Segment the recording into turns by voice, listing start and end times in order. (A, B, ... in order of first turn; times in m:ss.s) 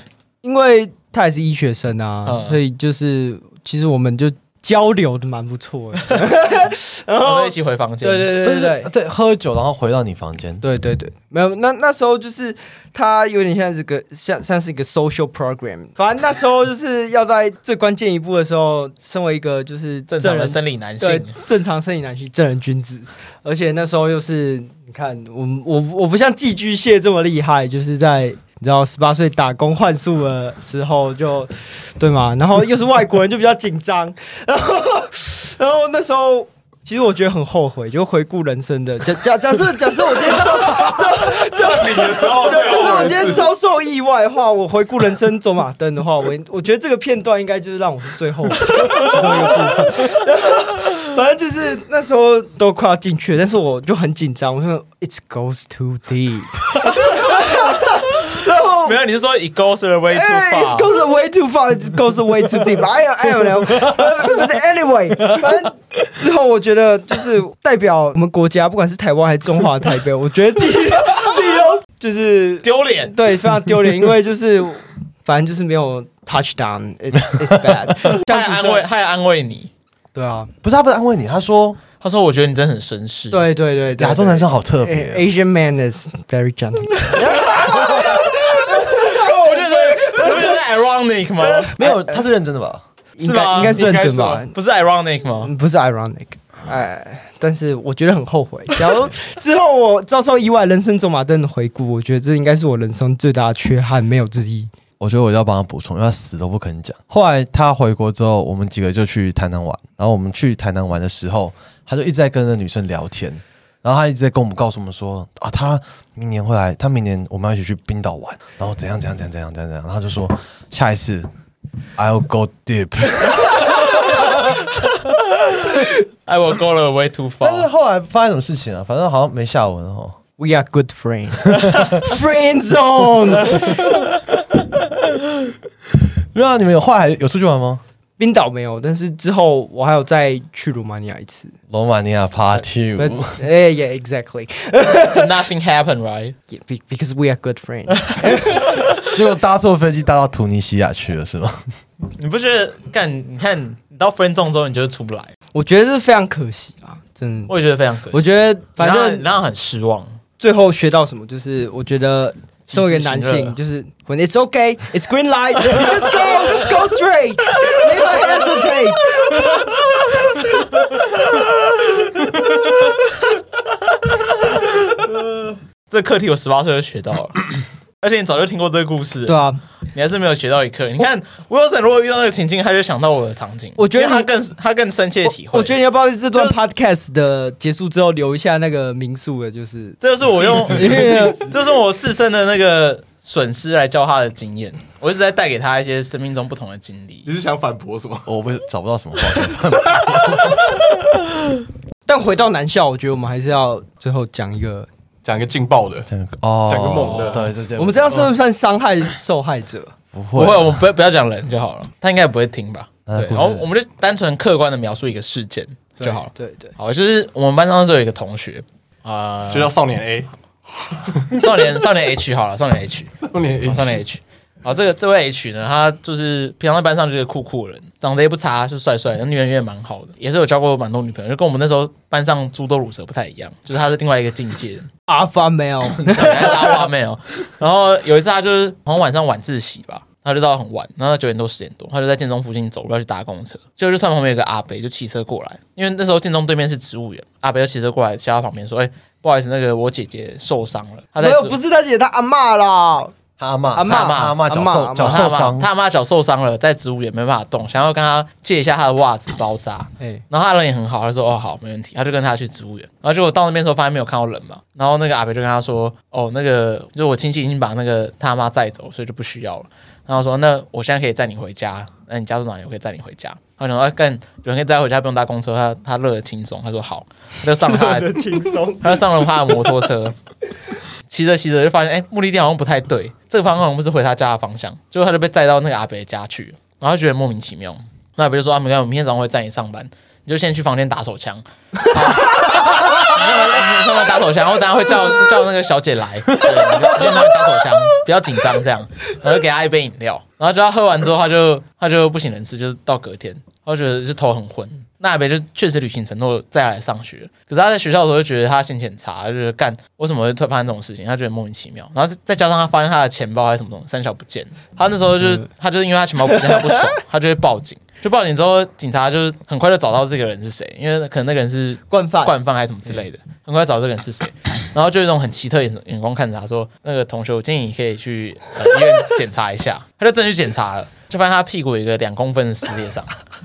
0:00.4-0:08.9 A
0:02.2-0:02.6 B
0:07.2-0:08.3 B
0:08.4-0:10.6 C
0:10.6-0:59.0 A
0:20.1-0:21.3 B
0:40.6-0:43.5 D
0:48.8-0:49.2 B
0:57.1-0:58.2 B
0:58.8-1:00.9 B
1:00.1-1:18.8 A
1:12.6-1:13.2 B
1:18.1-1:19.7 B
1:20.1-1:20.5 A
1:20.6-1:21.8 C
1:22.0-1:23.5 B
1:23.3-1:30.6 A
1:24.0-1:25.2 C
1:27.4-1:31.8 B
1:31.4-1:32.2 A
1:31.8-1:32.8 C
1:33.2-1:34.5 A
1:33.2-1:34.0 B
1:33.6-1:34.4 D
1:34.5-1:35.5 B
1:35.4-1:44.7 A
1:45.0-2:01.3 C
2:02.0-2:04.5 C
2:06.2-2:07.7 B
2:07.4-2:10.2 C
2:10.4-2:14.0 A
2:11.4-2:12.0 C
2:16.3-2:17.8 C
2:18.2-2:21.5 A
2:21.7-2:23.4 C
2:23.0-2:25.4 A
2:25.1-2:26.4 B
2:26.5-2:28.9 A
2:29.1-2:31.6 C
2:32.1-2:35.3 B
2:35.5-2:37.5 A
2:37.5-2:40.2 B
2:38.1-2:39.2 A
2:40.4-2:49.5 A
2:42.7-2:43.5 B
2:54.4-2:55.2 B
2:55.9-2:57.5 B
2:58.0-2:59.4 B
2:59.2-2:59.6 A
2:59.9-3:05.8 B
3:03.8-3:04.3 A
3:05.2-3:11.6 A
3:06.3-3:06.6 B
3:10.0-3:17.3 B
3:10.8-3:11.2 D
3:17.2-3:18.3 D
3:18.2-3:20.7 C
3:22.0-3:24.9 A
3:25.2-3:26.1 D
3:26.1-3:28.3 C
3:26.7-3:27.4 D
3:27.0-3:27.4 B
3:27.7-3:29.9 A
3:30.1-3:30.8 C
3:30.3-3:39.7 B
3:33.1-3:33.7 C
3:36.0-3:36.7 A
3:39.5-3:40.3 D
3:41.1-3:41.3 D
3:41.3-3:54.9 B
3:43.2-3:44.0 D
3:55.1-3:56.9 A
3:56.0-4:11.6 B
4:11.2-4:13.1 A
4:13.4-4:15.7 C
4:13.7-4:15.3 A
4:13.8-4:14.4 B
4:15.0-4:38.2 B
4:37.6-4:39.3 A
4:38.8-4:40.1 B
4:41.1-5:33.2 B
5:21.9-5:22.4 A